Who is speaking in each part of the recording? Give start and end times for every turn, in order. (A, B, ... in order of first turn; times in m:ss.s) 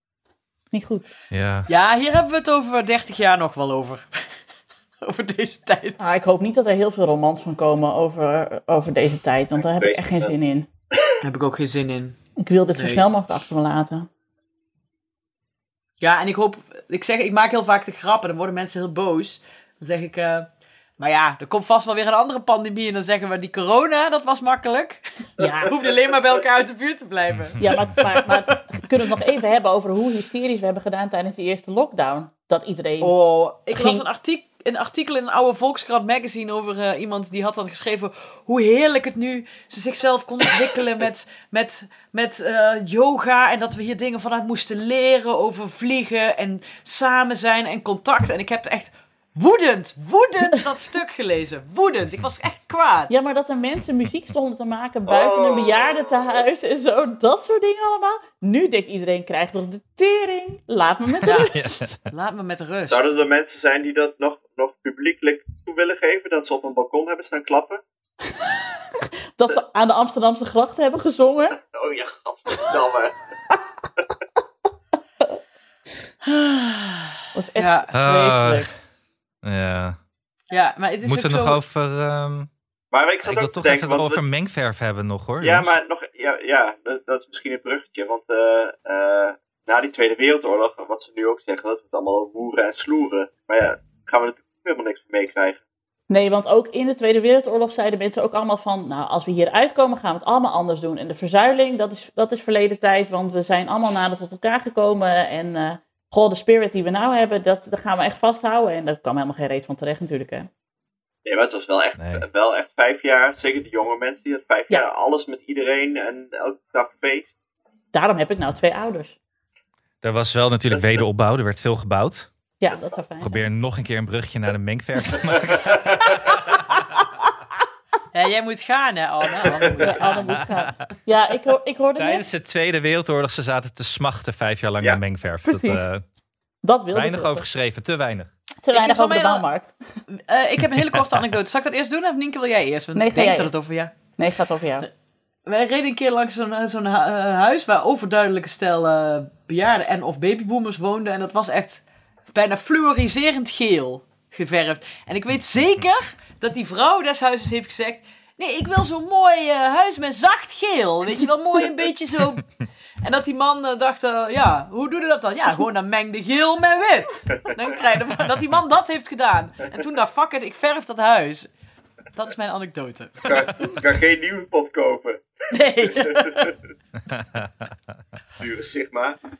0:00.7-0:01.1 A
0:01.3-0:01.7 B
0:01.7-0:04.3 C
0:05.0-0:06.0 C
0:06.0-0:10.6 A
0:09.6-0:10.3 D
0:11.2-0:12.2 C
0:12.4-0:14.1 A
0:12.8-0:13.0 C
0:16.0-0:27.6 C
0:25.4-0:25.7 A
0:27.3-0:27.6 B
0:27.6-0:33.1 A
0:33.0-0:53.2 C
0:33.7-0:34.0 A
0:53.1-1:01.9 A
0:55.1-0:56.4 D
1:01.2-1:01.5 C
1:01.4-1:01.9 B
1:02.1-1:03.1 C
1:02.8-1:07.8 D
1:08.3-1:11.6 A
1:11.6-1:13.2 D
1:16.2-1:17.9 C
1:17.3-1:18.7 A
1:17.9-1:18.7 B
1:19.4-1:20.0 B
1:20.5-1:21.6 C
1:21.0-1:22.5 B
1:22.9-1:24.2 D
1:23.2-1:25.7 B
1:25.4-1:35.6 D
1:36.1-1:50.5 A
1:51.2-1:57.3 D
1:52.0-1:52.2 B
1:57.9-1:59.2 A
2:00.0-2:02.3 B
2:02.6-2:03.4 A
2:03.2-2:05.9 B
2:05.3-2:06.1 D
2:08.1-2:10.4 C
2:09.8-2:12.2 A
2:10.3-2:10.7 B
2:12.0-2:16.0 B
2:15.4-2:15.8 A
2:16.6-2:17.5 A
2:16.9-2:18.3 B
2:18.6-2:19.7 A
2:18.7-2:19.4 C
2:20.1-2:24.0 C
2:20.7-2:21.2 B
2:23.0-2:23.5 A
2:24.2-2:24.9 A
2:25.4-2:42.5 C
2:43.0-2:51.5 C
2:52.1-2:53.3 C
2:53.2-2:55.2 D
2:55.5-2:56.4 C
2:55.8-2:56.5 D
2:57.1-2:57.5 B
2:58.4-2:59.2 D